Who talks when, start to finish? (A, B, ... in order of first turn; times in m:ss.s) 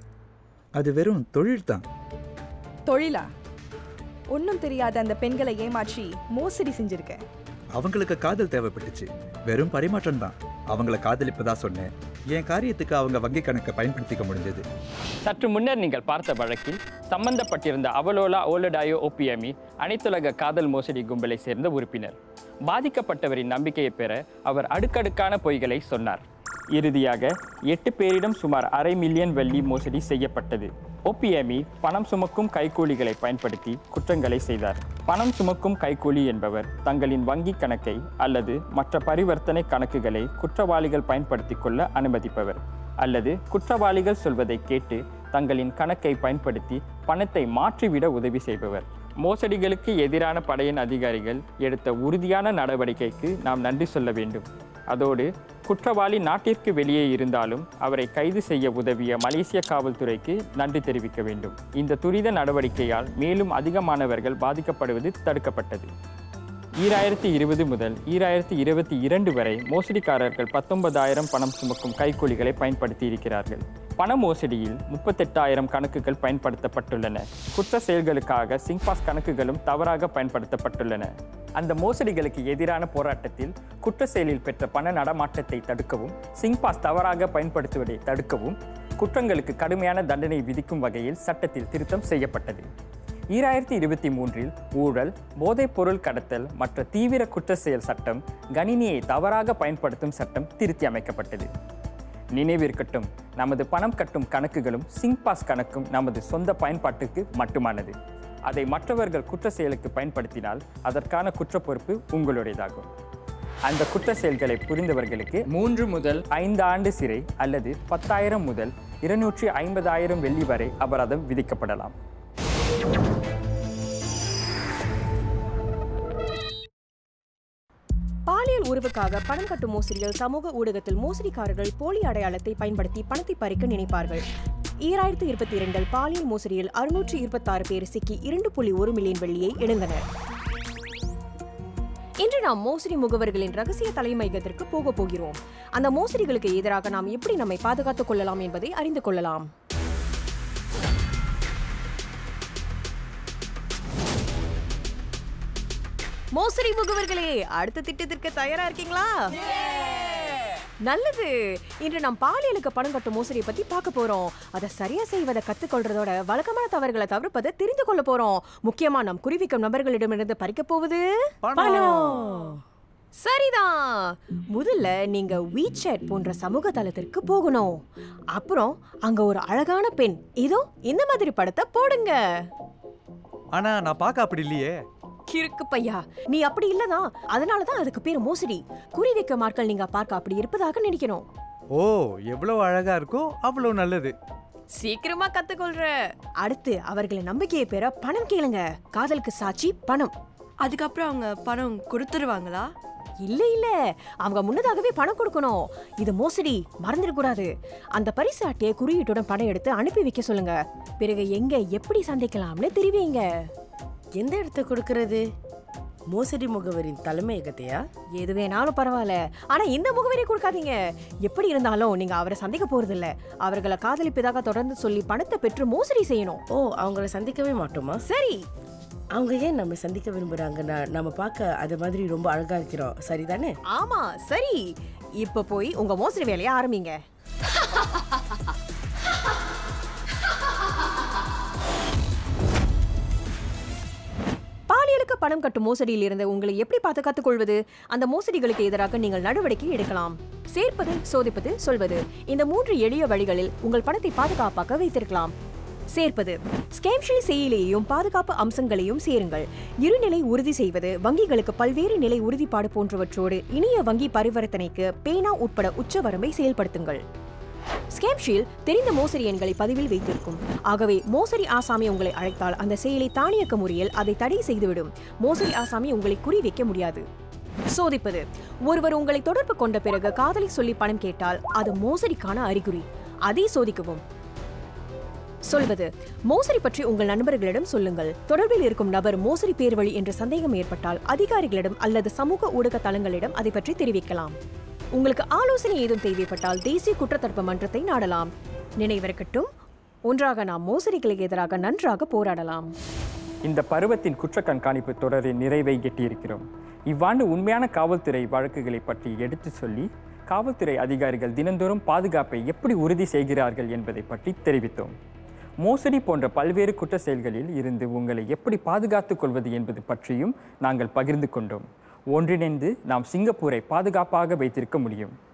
0:00.8-0:01.8 A
0:02.9-0:03.3 B
0:04.3-0:07.2 B
0:07.8-0:14.6 A
0:15.2-0:22.2 C
0:22.7-0:26.2 C
0:26.8-1:05.9 C
1:06.8-1:32.7 C
1:33.3-1:41.5 C
1:42.3-1:47.9 C
1:48.5-1:52.8 C
1:53.6-2:01.9 C
2:08.3-2:14.2 D
2:14.8-2:20.0 D
2:22.2-2:29.5 D
2:36.4-2:39.3 D
2:40.8-2:51.0 D
2:51.4-2:52.3 E
2:51.6-2:52.1 D
2:51.9-2:52.5 F
2:53.2-2:57.8 D
2:58.3-3:02.2 D
3:03.5-3:04.8 E
3:05.3-3:11.2 D
3:11.7-3:14.1 E
3:14.8-3:20.1 D
3:20.6-3:22.7 G
3:23.2-3:33.2 D
3:34.2-3:35.2 F
3:36.1-3:37.8 F
3:38.2-3:46.4 D
3:46.5-3:48.0 F
3:48.0-3:48.4 D
3:49.1-3:53.5 F
3:53.7-3:56.9 D
4:04.7-4:15.3 D
4:15.9-4:27.0 D
4:27.9-4:37.0 D
4:37.7-4:44.0 D
4:45.5-4:54.4 D
4:54.9-4:59.5 D
5:00.1-5:02.7 D
5:03.4-5:14.9 C
5:15.6-5:25.1 C